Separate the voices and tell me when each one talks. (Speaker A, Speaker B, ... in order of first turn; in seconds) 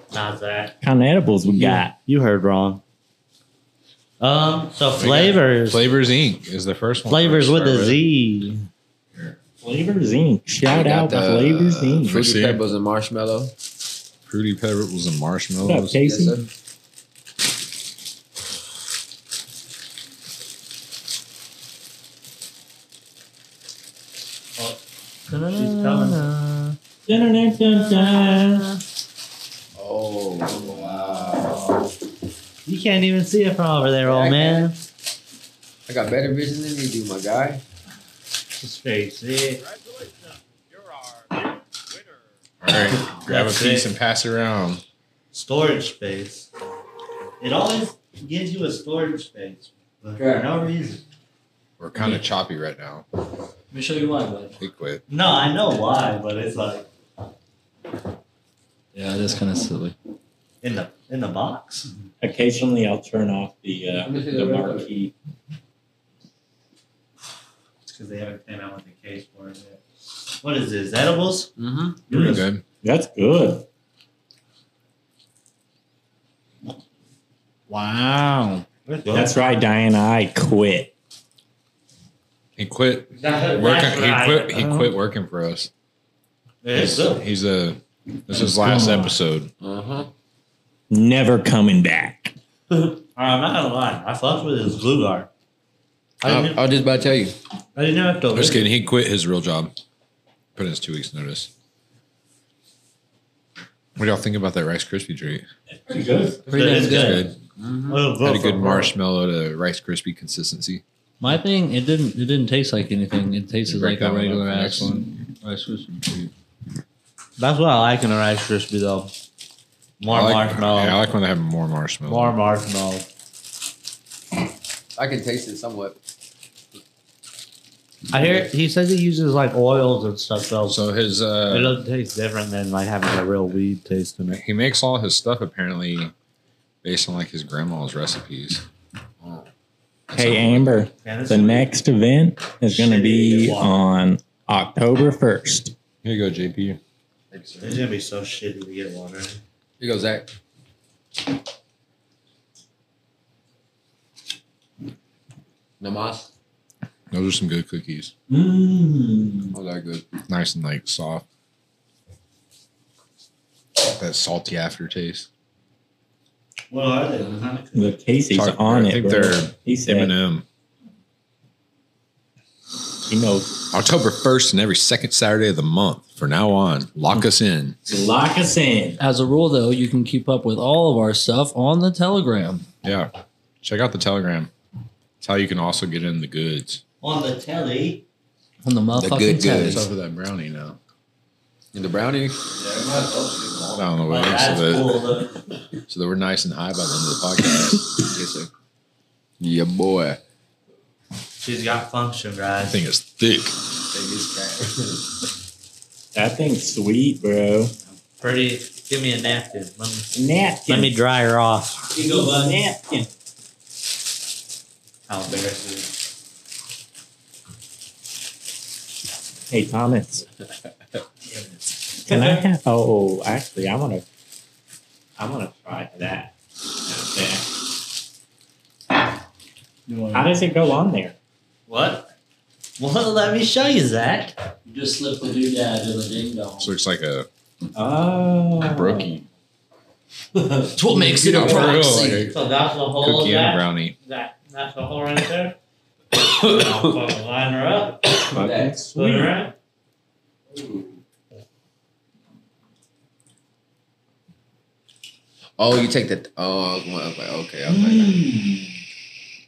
Speaker A: 0.1-0.7, 1.6-2.8, 4.2-5.8, 7.1-8.6, 25.3-26.3, 32.6-34.8, 38.6-39.6, 43.0-43.9, 45.3-46.5, 47.4-51.0, 55.1-56.9, 60.6-61.9, 67.8-69.8, 70.4-71.5, 78.8-79.3, 83.2-84.9, 86.6-87.2, 92.7-95.3, 96.2-96.6, 97.8-98.7, 106.5-107.3, 107.9-108.9, 117.4-119.1, 120.0-121.0, 122.1-123.0, 128.1-130.8, 131.5-134.4, 141.0-141.7, 142.7-143.8, 147.6-149.4, 166.7-167.9, 187.0-188.0, 194.1-195.3, 201.4-202.8, 208.2-210.1, 210.7-211.9, 215.1-215.9, 229.9-230.3, 231.7-232.1, 232.8-234.3, 242.3-245.6, 246.3-248.2, 248.9-249.5
Speaker B: 0.8-1.9, 9.6-12.2, 15.6-16.4, 27.1-28.7, 62.2-65.1, 72.8-73.6, 79.1-80.9, 90.9-92.3, 105.8-106.4, 140.1-145.7, 158.3-159.5, 167.7-170.1, 173.1-173.5, 177.9-179.0, 206.1-207.7, 210.1-210.9, 211.9-213.1, 219.5-220.2, 222.0-224.0, 225.2-226.3, 226.8-227.5, 230.1-231.1, 237.8-239.1, 248.3-249.3, 257.7-258.7
Speaker C: 5.0-8.0, 12.0-12.6, 14.2-16.0, 42.6-44.8, 51.8-53.0, 54.6-55.0, 72.1-72.6, 82.6-85.7, 86.7-89.5, 98.3-99.7, 100.5-101.5, 104.0-105.5, 106.8-107.3, 108.2-110.8, 113.7-115.1, 120.1-122.4, 130.7-131.8, 134.3-136.1, 136.8-138.6, 140.1-140.8, 146.0-146.8, 157.1-158.1, 160.3-161.2, 163.8-165.3, 168.3-170.4, 173.7-177.8, 182.8-183.1, 183.6-184.5, 185.2-186.8, 189.6-190.8, 193.7-195.1, 195.9-197.9, 202.6-203.6, 236.6-237.3, 238.6-239.2, 241.2-242.3, 242.9-244.0
Speaker D: 10.7-13.5, 16.0-16.5, 29.7-31.6, 34.0-34.7, 35.9-37.6, 64.0-64.9, 71.6-72.0, 89.6-90.1, 96.2-97.3, 107.6-108.1, 125.0-126.0, 139.2-139.5, 147.3-147.8, 149.8-150.3, 155.8-156.3, 159.5-160.1, 188.9-189.8, 191.7-193.5, 197.9-198.5, 199.4-200.2, 203.8-205.0, 246.3-246.8, 248.2-248.8, 255.6-258.3
Speaker E: 25.3-26.8, 50.2-50.4, 53.7-54.6, 58.9-59.9, 106.5-107.3, 111.2-116.3, 179.0-182.7, 188.6-189.8, 234.7-236.7, 240.8-242.3